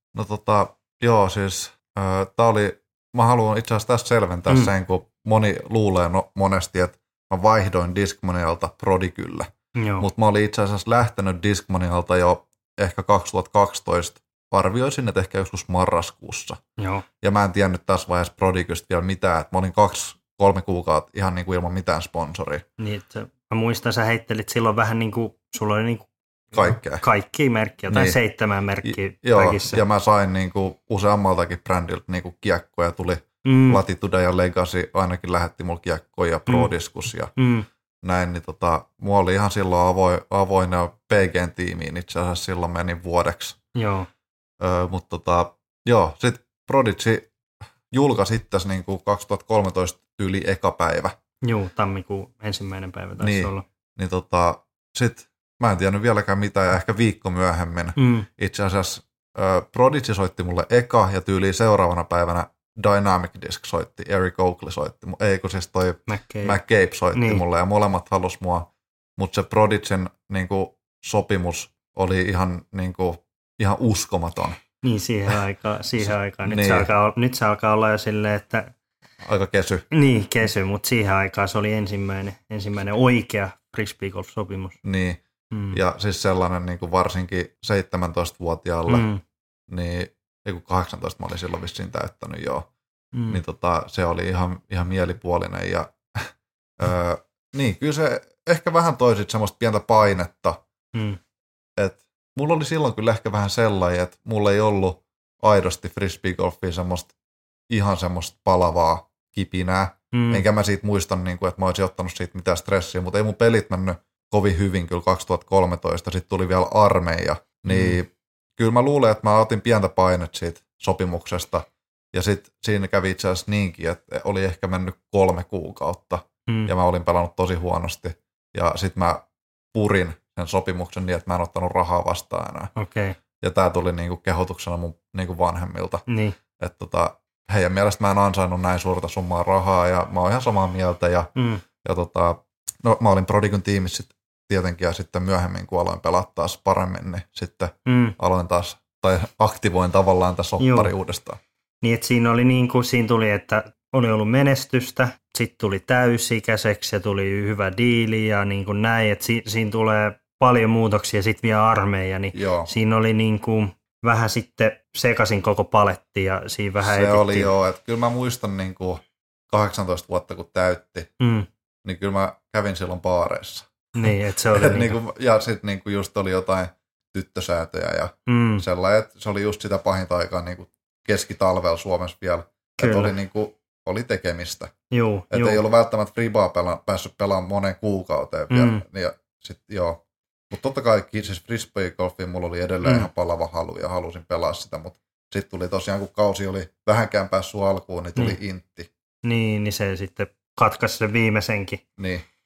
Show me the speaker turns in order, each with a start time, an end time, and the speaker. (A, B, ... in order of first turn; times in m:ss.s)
0:00.2-0:16.6 A
0:09.8-0:10.1 B
0:16.8-0:17.0 B
0:17.2-0:22.6 A
0:22.8-0:29.8 B
0:26.5-0:27.0 A
0:27.9-0:28.2 A
0:28.8-0:37.3 A
0:33.4-0:33.8 B
0:37.4-0:37.7 B
0:38.0-0:43.6 A
0:43.8-0:44.1 B
0:44.6-0:47.3 A
0:47.9-0:51.1 A
0:51.4-0:53.6 B
0:53.2-1:14.6 A
0:58.0-0:58.3 B
1:06.1-1:06.6 B
1:07.1-1:07.4 B
1:14.8-1:18.7 B
1:16.0-1:16.9 A
1:19.2-1:19.8 A
1:19.9-1:24.8 B
1:24.8-1:25.2 A
1:25.5-1:25.8 B
1:25.7-1:29.1 A
1:28.9-1:29.2 B
1:29.7-1:32.7 A
1:33.1-1:33.4 B
1:33.3-1:40.6 A
1:41.8-1:47.1 A
1:47.7-2:12.7 A
1:50.1-1:50.4 B
1:57.7-1:58.0 B
2:12.8-2:13.2 B
2:13.4-2:16.0 A
2:16.1-2:16.4 B
2:16.6-2:21.3 A
2:21.4-2:21.6 B
2:21.8-2:31.4 A
2:27.9-2:28.2 B
2:30.6-2:30.9 B
2:31.8-2:47.5 B
2:42.3-2:42.7 A
2:46.8-2:51.1 A
2:51.2-2:51.5 B
2:51.8-3:04.7 A
2:54.0-2:55.0 B
2:58.3-2:58.6 B
3:02.8-3:03.1 B
3:04.9-3:05.6 B
3:05.3-3:18.9 A
3:08.5-3:08.8 B
3:19.2-3:21.8 B
3:22.0-3:22.2 A